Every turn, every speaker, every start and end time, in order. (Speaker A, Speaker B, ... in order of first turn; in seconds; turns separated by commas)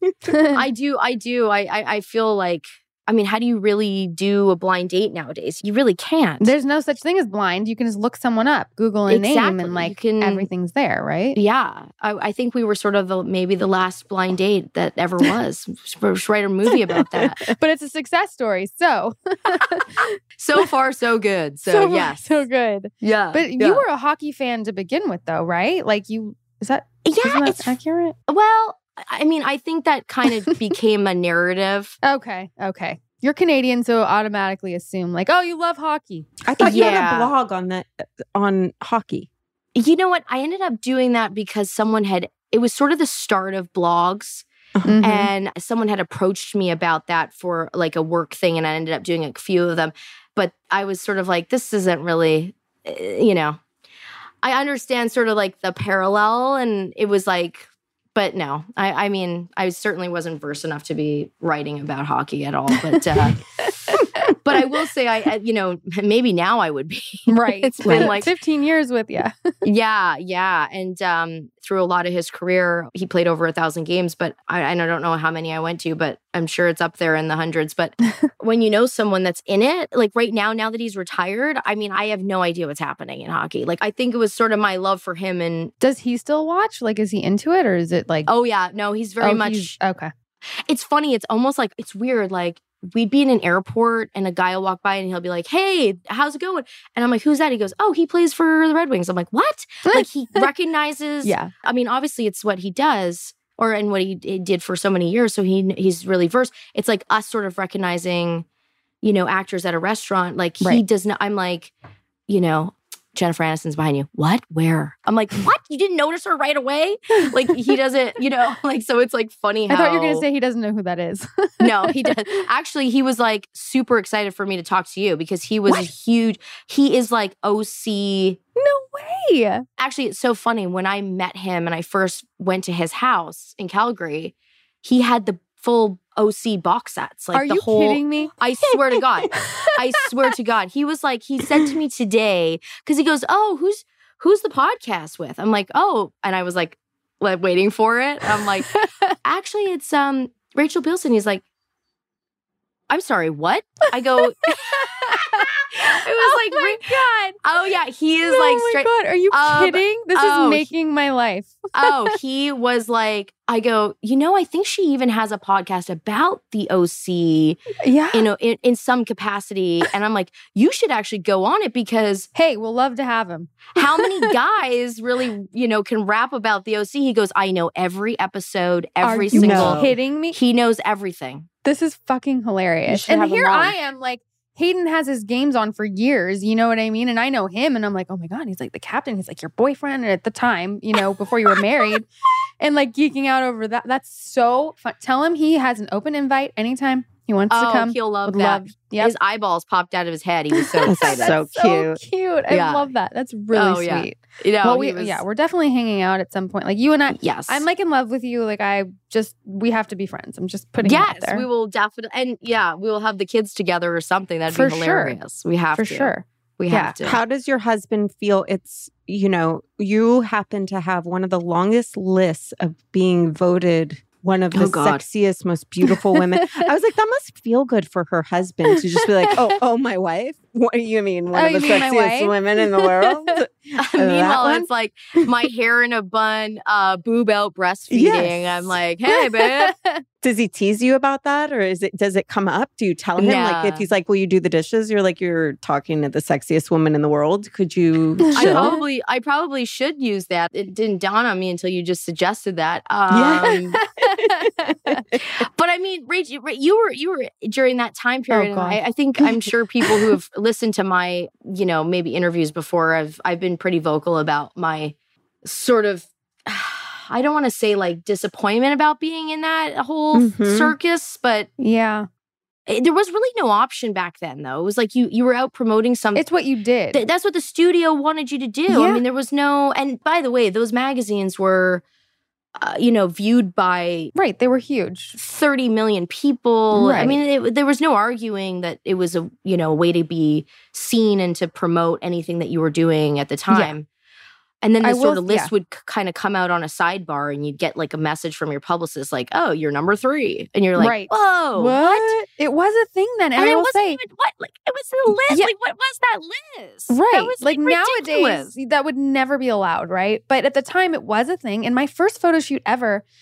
Speaker A: 0.3-0.6, Speaker B: 0.5-6.5, Speaker A: 6.4-11.4, Speaker B: 9.1-10.5, Speaker B: 11.3-17.5, Speaker A: 17.5-20.1, Speaker B: 20.4-22.3, Speaker A: 21.6-28.1, Speaker B: 23.0-23.8, Speaker B: 27.0-27.7, Speaker B: 28.3-32.0, Speaker A: 32.0-36.9, Speaker C: 36.4-39.3, Speaker B: 36.6-37.3, Speaker B: 39.7-44.5, Speaker A: 44.8-45.3, Speaker B: 45.0-53.6, Speaker B: 54.4-68.3, Speaker A: 63.6-64.3, Speaker A: 67.3-69.5, Speaker C: 67.8-68.2, Speaker B: 69.6-85.7, Speaker A: 85.8-88.3, Speaker B: 88.3-89.8, Speaker A: 89.2-90.1, Speaker B: 90.7-108.4, Speaker A: 99.8-100.5, Speaker A: 101.2-101.5, Speaker B: 109.0-111.7, Speaker B: 112.3-120.2, Speaker A: 119.7-122.4, Speaker B: 121.6-128.4, Speaker A: 128.6-129.6, Speaker B: 129.8-151.4, Speaker A: 137.3-138.3, Speaker A: 139.4-139.7, Speaker A: 148.7-149.1, Speaker B: 152.9-160.7, Speaker A: 154.2-157.4, Speaker A: 158.2-162.1, Speaker B: 161.7-172.3, Speaker A: 167.8-168.3, Speaker A: 172.3-174.3, Speaker B: 173.8-181.5, Speaker A: 179.0-180.4, Speaker C: 179.3-179.9, Speaker A: 181.6-192.1, Speaker B: 182.9-183.7, Speaker A: 192.6-199.1, Speaker B: 197.5-201.3, Speaker A: 200.6-211.4, Speaker C: 200.8-202.0, Speaker B: 202.5-202.9, Speaker B: 203.5-205.2, Speaker B: 207.1-207.6, Speaker B: 210.8-217.2, Speaker A: 214.5-215.2, Speaker A: 215.8-216.9, Speaker C: 217.0-234.7, Speaker B: 224.5-225.0, Speaker A: 225.9-226.7, Speaker A: 229.2-229.5, Speaker A: 231.3-233.4, Speaker B: 233.8-239.7, Speaker C: 237.9-238.8, Speaker A: 239.1-240.0, Speaker C: 240.2-248.8, Speaker B: 243.2-243.9, Speaker A: 248.2-248.8, Speaker B: 248.3-253.8, Speaker C: 253.1-253.6, Speaker A: 253.7-255.0, Speaker C: 254.2-255.2, Speaker B: 255.2-271.5, Speaker A: 258.3-258.8, Speaker C: 270.1-270.7, Speaker A: 271.6-272.1, Speaker B: 272.7-276.2, Speaker A: 276.1-277.0, Speaker B: 276.9-281.8, Speaker A: 278.7-279.0, Speaker B: 282.6-284.1, Speaker A: 284.1-285.2, Speaker B: 285.1-293.9, Speaker A: 286.7-287.2, Speaker B: 294.6-302.2, Speaker A: 294.8-295.5, Speaker A: 300.8-304.0, Speaker B: 303.4-308.5, Speaker A: 306.9-313.0